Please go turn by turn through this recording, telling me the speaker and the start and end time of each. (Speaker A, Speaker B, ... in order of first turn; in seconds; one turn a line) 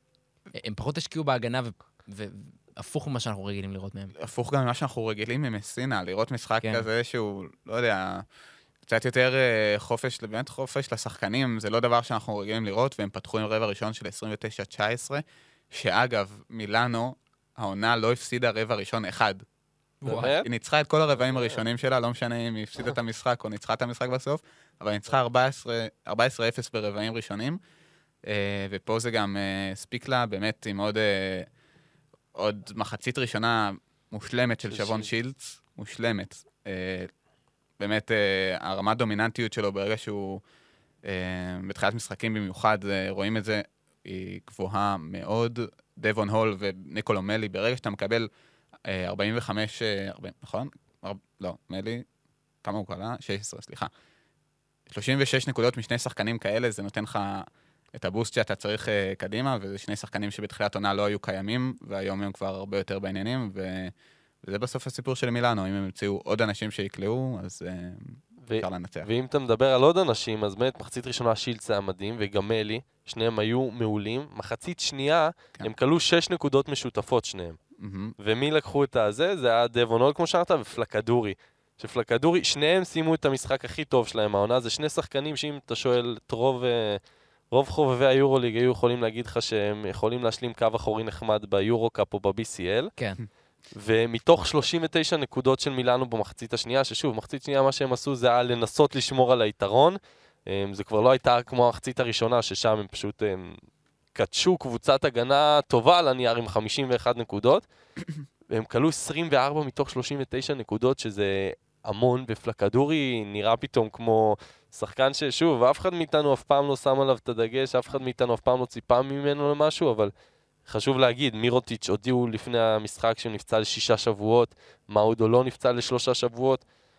Speaker A: 0.5-4.1
Speaker B: 4.2-8.2
Speaker B: 8.8-19.4
Speaker A: 20.0-20.3
Speaker C: 20.0-20.5
Speaker B: 20.4-27.6
Speaker C: 21.3-21.6
Speaker B: 28.2-31.5
Speaker B: 32.3-37.1
Speaker C: 34.7-35.1
Speaker B: 37.8-40.4
Speaker B: 41.0-48.3
Speaker B: 48.9-52.0
Speaker B: 52.6-53.9
Speaker B: 54.9-69.1
Speaker C: 68.4-77.6
Speaker B: 77.8-78.1
Speaker C: 78.2-87.0
Speaker C: 87.5-92.9
Speaker C: 93.7-103.5
Speaker C: 104.1-107.6
Speaker C: 108.5-120.1
Speaker C: 120.7-126.6